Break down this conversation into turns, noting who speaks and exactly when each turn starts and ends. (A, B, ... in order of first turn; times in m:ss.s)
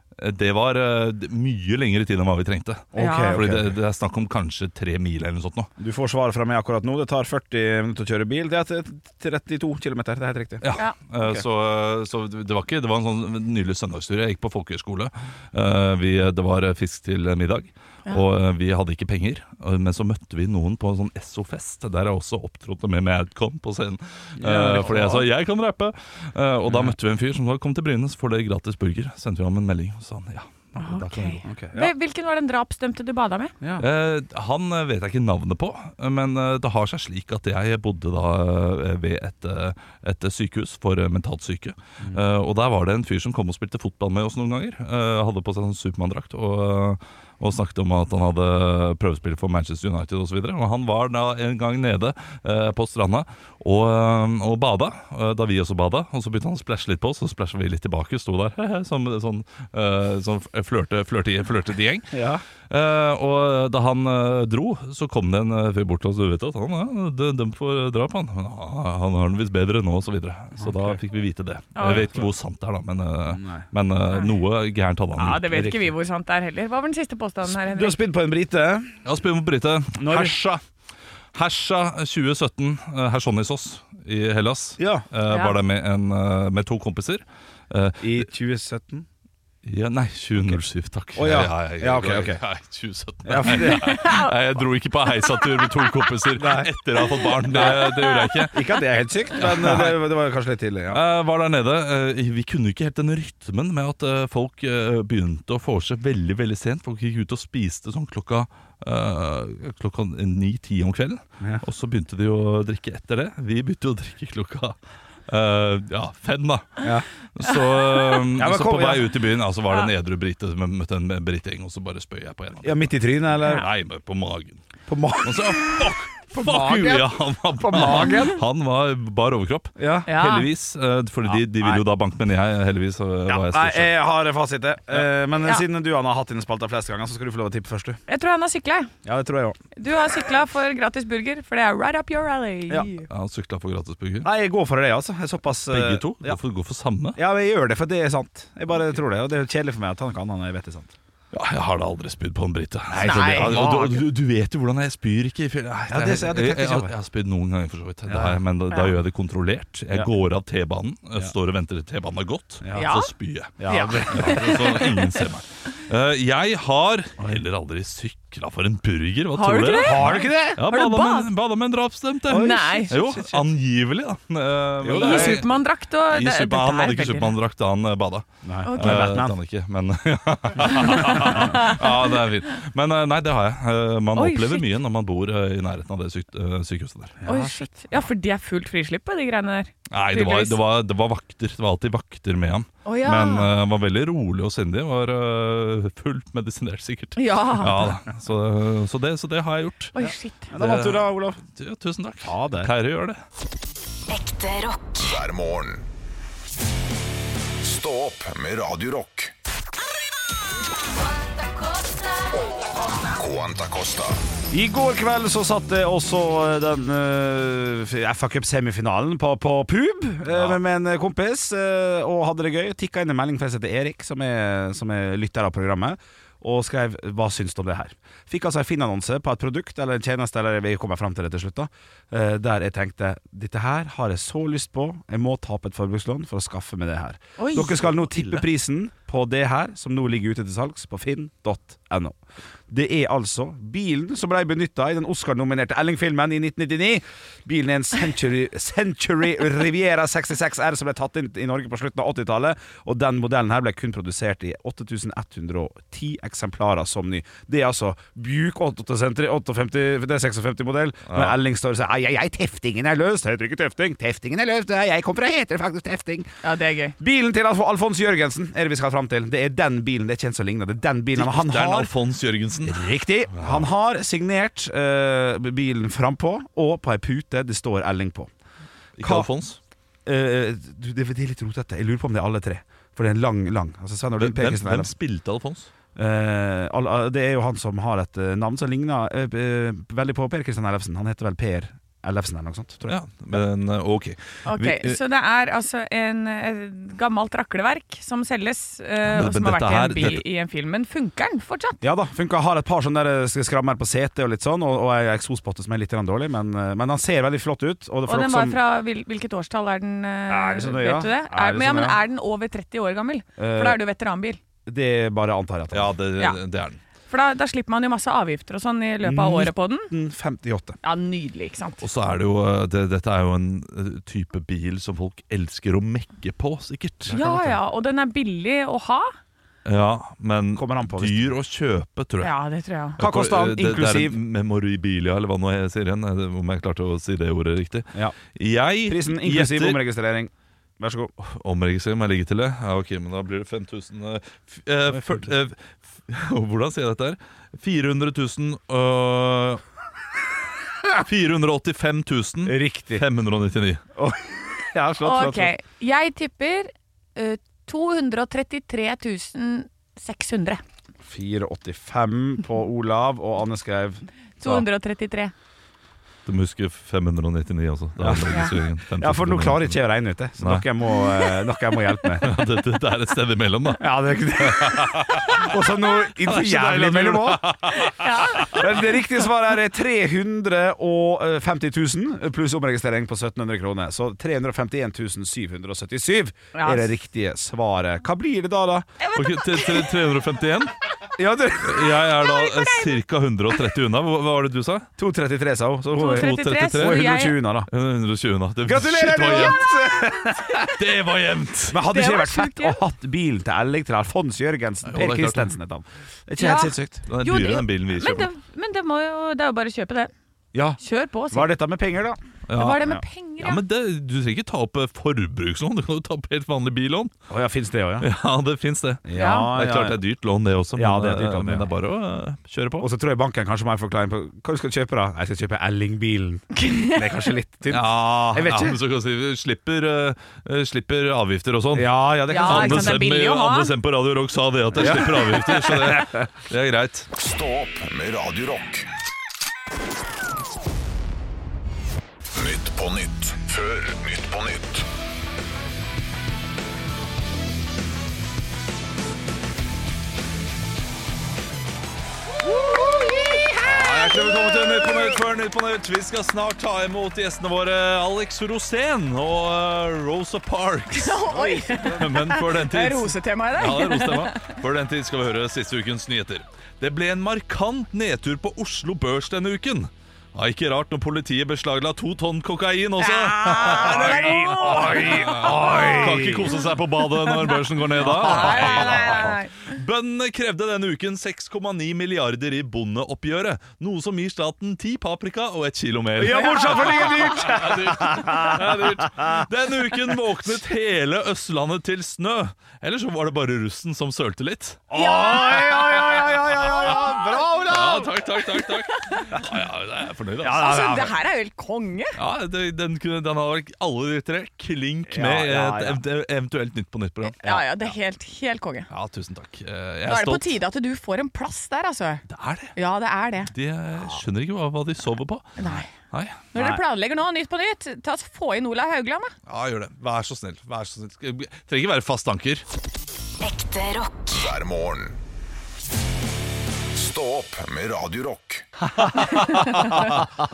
0:00.2-0:05.7 A
0:02.9-0:03.7 B
0:03.0-0:03.4 C
0:05.8-0:11.4 B
0:10.6-0:31.0 A
0:24.4-0:25.2 B
0:26.6-0:27.0 B
0:30.8-0:33.5 C
0:31.1-0:31.9 B
0:33.6-0:33.8 B
0:33.8-1:15.4 A
1:02.1-1:02.4 B
1:10.6-1:11.0 B
1:11.8-1:12.1 C
1:13.3-1:13.6 B
1:15.2-1:18.0 C
1:15.2-1:15.9 B
1:17.5-1:19.0 B
1:19.0-1:20.6 A
1:20.0-1:20.4 B
1:21.3-1:28.3 A
1:24.8-1:25.0 B
1:25.3-1:25.6 C
1:28.0-1:29.0 B
1:29.6-1:38.6 A
1:31.2-1:32.4 B
1:33.2-1:34.1 B
1:33.5-1:34.3 C
1:36.3-1:36.7 B
1:37.5-1:37.8 B
1:37.5-1:38.5 C
1:38.5-1:41.0 B
1:39.4-1:40.0 A
1:40.9-1:54.8 A
1:55.3-2:04.6 A
1:58.4-1:59.1 B
2:02.6-2:03.7 B
2:04.9-2:08.4 B
2:05.2-2:13.9 A
2:09.8-2:10.1 B
2:10.0-2:10.5 C
2:11.2-2:11.8 B
2:13.3-2:18.0 B
2:18.1-2:18.9 C
2:19.0-2:19.6 B
2:19.8-2:23.1 C
2:23.1-2:24.3 A
2:24.2-2:26.4 B
2:25.7-2:27.2 A
2:27.2-2:30.9 B
2:31.3-2:43.6 A
2:32.9-2:34.0 B
2:33.0-2:33.8 C
2:35.9-2:36.9 B
2:38.1-2:38.4 B
2:42.6-2:42.9 B
2:42.7-2:43.1 C
2:43.6-2:44.7 B
2:43.7-2:45.1 C
2:44.1-3:07.2 A
2:49.3-2:51.3 C
2:49.8-2:50.6 B
2:52.3-2:53.5 B
2:52.3-2:52.9 C
2:54.8-2:55.4 B
2:54.9-2:57.3 C
2:58.4-2:59.3 B
2:58.6-2:59.1 C
3:00.8-3:01.9 C
3:01.0-3:01.5 B
3:04.2-3:04.7 C
3:07.2-3:07.6 B
3:07.2-3:10.6 C
3:09.9-3:19.9 A
3:12.8-3:13.5 C
3:17.2-3:17.9 C
3:20.0-3:20.5 C
3:20.0-3:21.4 B
3:20.6-3:23.2 A
3:22.2-3:22.7 B
3:24.1-3:25.1 D
3:25.0-3:25.8 E
3:27.6-3:29.3 E
3:33.1-3:34.2 E
3:34.5-4:26.3 B
3:40.3-3:40.6 A
3:57.4-3:58.4 C
4:21.1-4:21.4 A
4:26.4-4:27.0 C
4:27.0-4:31.9 B
4:31.1-4:33.7 A
4:32.6-4:38.3 B
4:39.0-4:39.6 A
4:39.0-4:39.3 B
4:40.0-4:44.9 B
4:44.2-4:45.7 A
4:46.0-4:53.4 B
4:52.9-4:55.0 A
4:54.4-5:01.8 C
4:59.0-5:00.2 A
5:01.8-5:08.6 B
5:08.0-5:14.4 C
5:10.3-5:12.0 B
5:13.4-5:13.8 B
5:14.6-5:15.9 B
5:15.7-5:16.8 A
5:17.1-5:19.9 C
5:19.0-5:20.8 B
5:20.8-5:21.8 C
5:21.8-5:27.6 A
5:27.1-5:29.1 C
5:29.6-5:32.3 A
5:30.5-5:31.3 B
5:32.2-5:33.0 C
5:33.0-5:34.2 B
5:33.0-5:39.8 A
5:38.8-5:41.1 B
5:41.2-5:49.6 A
5:44.9-5:45.3 B
5:51.0-5:53.8 A
5:52.4-5:53.0 B
5:54.0-5:55.5 B
5:55.0-6:00.6 C
6:01.0-6:04.6 B
6:04.4-6:05.3 C
6:06.2-6:09.8 A
6:08.0-6:08.4 B
6:09.0-6:12.4 B
6:10.4-6:10.6 A
6:12.2-6:15.5 A
6:13.8-6:28.9 B
6:16.2-6:18.5 A
6:17.9-6:18.6 C
6:26.5-6:26.9 C
6:29.0-6:30.0 C
6:29.1-6:30.7 A
6:31.2-6:32.0 B
6:31.6-6:34.9 A
6:32.2-6:33.0 C
6:35.0-6:37.7 B
6:36.0-6:37.4 C
6:36.0-6:39.6 A
6:38.6-6:40.7 B
6:40.7-6:41.8 A
6:41.7-6:46.9 B
6:41.8-6:42.8 C
6:44.8-6:45.5 A
6:46.4-6:50.1 C
6:46.8-6:48.3 A
6:50.5-6:50.8 B
6:50.8-6:51.5 C
6:51.3-6:52.2 B
6:52.5-6:57.1 A
6:52.5-6:53.6 C
6:57.3-6:58.1 B
6:58.0-7:02.9 A
6:59.0-7:00.0 B
6:59.1-6:59.5 C
7:00.8-7:01.7 B
7:02.8-7:08.8 B
7:06.5-7:07.0 C
7:07.7-7:17.1 A
7:11.7-7:13.0 B
7:12.3-7:13.7 C
7:14.7-7:16.3 B
7:17.2-7:18.9 E
7:22.3-7:24.8 E
7:32.4-7:34.8 C
7:33.6-7:41.3 A
7:40.9-7:44.5 C
7:41.3-7:42.1 B
7:41.8-8:14.8 A
7:53.0-7:56.6 C
7:53.6-7:56.6 B
7:57.3-7:59.7 C
7:58.0-7:59.2 B
8:06.2-8:09.4 B
8:06.2-8:07.2 C
8:14.9-8:18.2 B
8:14.9-8:16.1 C
8:17.6-8:20.7 A
8:18.7-8:19.3 C
8:20.4-8:21.2 B
8:20.4-8:22.1 C
8:22.2-8:27.4 A
8:25.1-8:26.0 B
8:27.4-8:28.9 C
8:27.4-8:27.7 B
8:28.9-8:30.6 A
8:30.1-8:32.2 C
8:32.3-8:32.8 A
8:32.7-8:33.5 C
8:33.5-8:36.4 A
8:35.6-8:35.9 C
8:36.5-8:39.3 C
8:36.5-8:36.8 B
8:39.5-8:42.6 A
8:43.4-8:44.4 D
8:44.3-8:45.2 E
8:46.9-8:48.6 E
8:49.1-8:50.2 A